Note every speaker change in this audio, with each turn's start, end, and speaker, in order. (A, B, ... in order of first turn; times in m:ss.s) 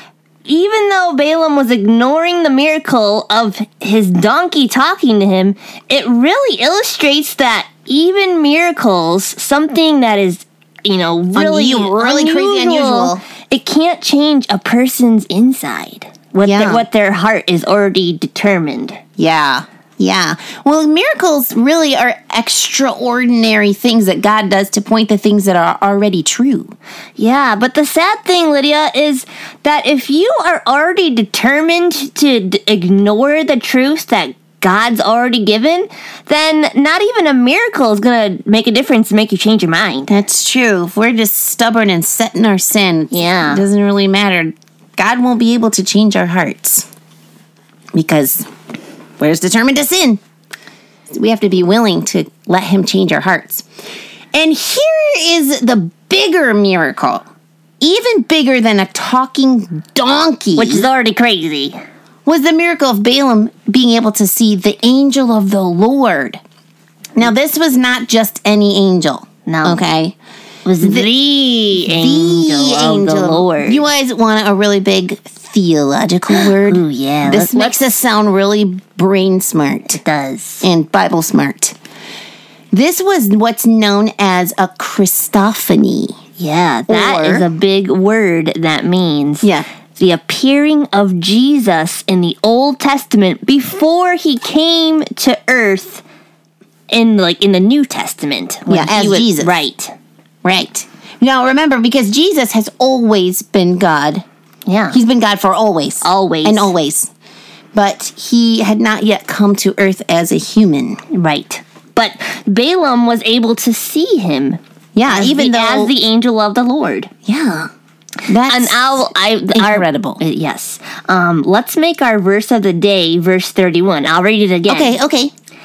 0:00.4-0:19.0 A
0:11.3-0:13.2 B
0:16.4-0:16.8 B
0:19.2-0:26.7 B
0:27.2-0:40.1 A
0:40.1-0:46.8 B
0:43.1-0:43.6 A
0:47.9-0:48.5 B
0:49.2-0:50.2 B
0:51.1-0:53.6 B
0:54.3-0:57.2 B
0:57.8-1:00.9 B
1:00.6-1:01.8 A
1:02.2-1:06.4 B
1:07.2-1:10.2 B
1:09.5-1:09.8 A
1:10.6-1:13.8 A
1:10.8-1:11.1 B
1:11.8-1:20.0 B
1:16.3-1:17.8 A
1:19.9-1:20.6 A
1:20.6-1:21.7 B
1:22.7-1:26.2 B
1:26.4-1:36.0 A
1:26.9-1:27.5 B
1:29.4-1:29.7 B
1:36.9-1:39.9 A
1:38.7-1:39.5 B
1:40.4-1:44.2 B
1:44.7-1:45.0 A
1:44.9-1:47.1 B
1:46.0-1:46.7 A
1:47.7-1:51.0 B
1:51.1-1:57.1 A
1:54.9-1:55.9 B
1:57.2-1:57.7 B
1:58.3-1:58.8 B
1:58.5-2:05.0 A
1:59.5-2:00.2 B
2:04.7-2:05.3 B